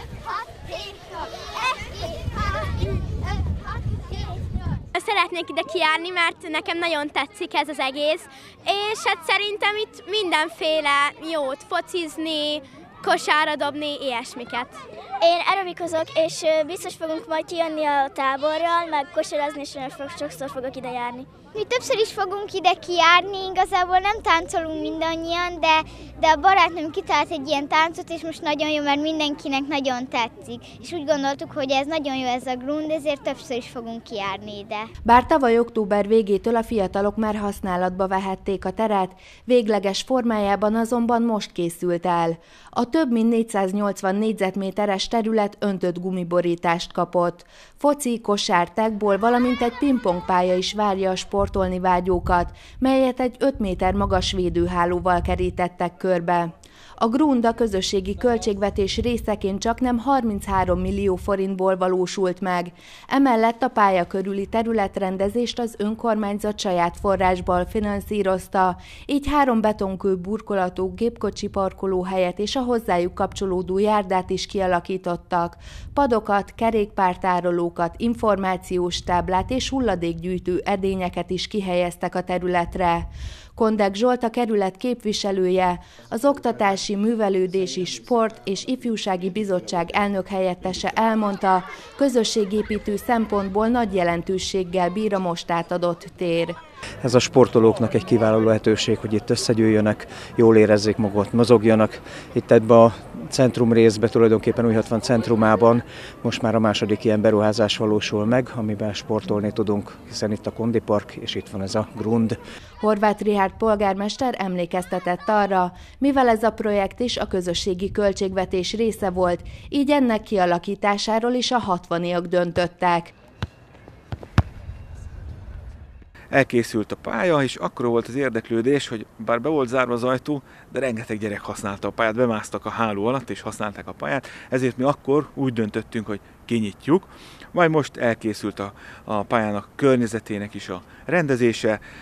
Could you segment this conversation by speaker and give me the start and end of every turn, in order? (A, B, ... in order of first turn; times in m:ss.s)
0:00.5-0:02.9 A
0:05.0-0:14.8 B
0:15.2-0:21.3 C
0:21.6-0:34.9 A
0:35.1-1:36.6 D
1:37.0-1:52.4 E
1:52.8-2:03.1 D
2:06.3-2:21.8 F